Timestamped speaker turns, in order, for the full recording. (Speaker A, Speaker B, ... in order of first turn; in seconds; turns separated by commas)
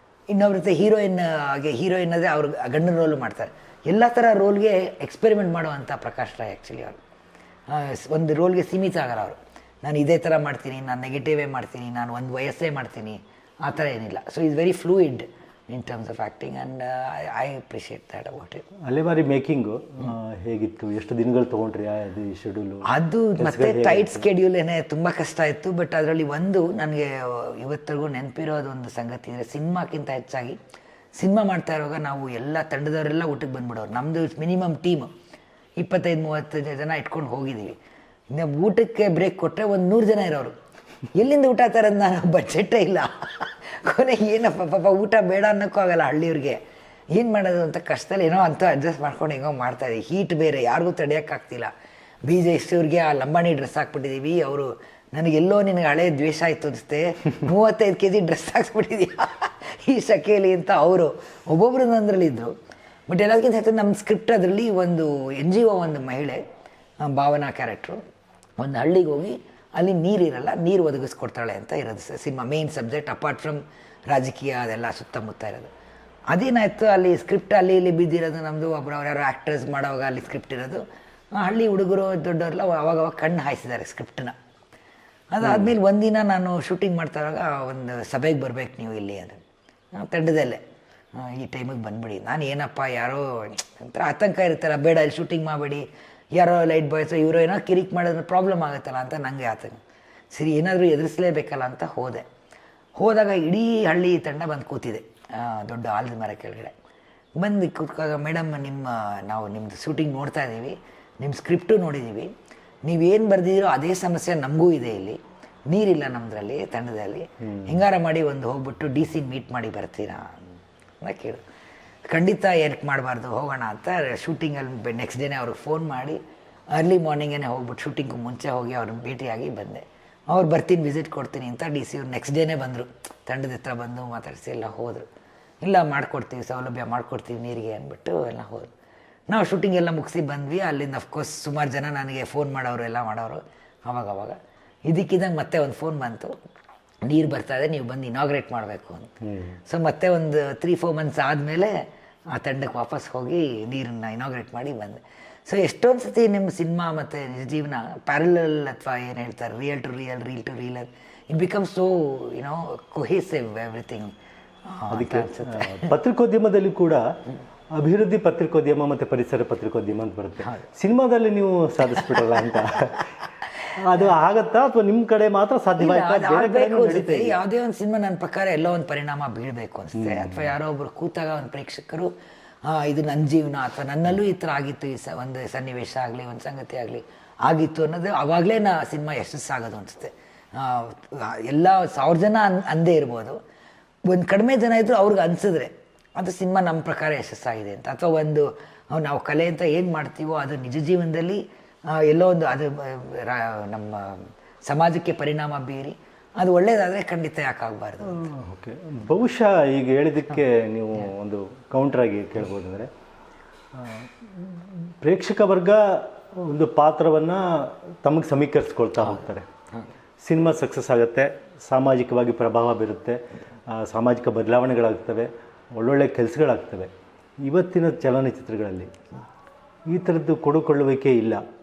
Speaker A: 0.3-7.0, Speaker A: 7.7-18.6, Speaker B: 18.9-22.9, Speaker A: 22.9-30.6, Speaker B: 23.4-24.2, Speaker A: 31.2-35.1, Speaker A: 35.8-37.8, Speaker A: 38.3-40.5, Speaker A: 41.1-46.6, Speaker A: 47.1-51.7, Speaker A: 52.2-62.5, Speaker A: 63.1-66.4, Speaker A: 67.0-68.0, Speaker A: 68.6-75.7, Speaker A: 76.3-80.8, Speaker A: 81.3-84.3, Speaker A: 85.3-89.4, Speaker B: 85.4-85.7, Speaker A: 89.9-90.6, Speaker A: 91.2-99.8, Speaker A: 100.3-102.2, Speaker A: 103.0-106.7, Speaker A: 107.3-112.3, Speaker A: 112.8-120.4, Speaker B: 117.5-117.8, Speaker A: 121.0-121.4, Speaker A: 122.1-126.2, Speaker A: 126.7-135.1, Speaker A: 135.6-138.7, Speaker A: 139.3-146.3, Speaker A: 147.0-149.1, Speaker B: 149.2-149.6, Speaker A: 149.7-151.8, Speaker A: 152.3-164.1, Speaker A: 164.7-165.9, Speaker B: 164.9-167.1, Speaker B: 167.8-173.1, Speaker B: 173.8-177.4, Speaker A: 175.8-182.1, Speaker B: 179.9-180.4, Speaker A: 182.6-193.4, Speaker A: 194.1-208.2, Speaker B: 208.1-212.9, Speaker B: 213.7-219.5, Speaker B: 220.2-226.9, Speaker B: 227.4-228.9, Speaker B: 229.9-231.4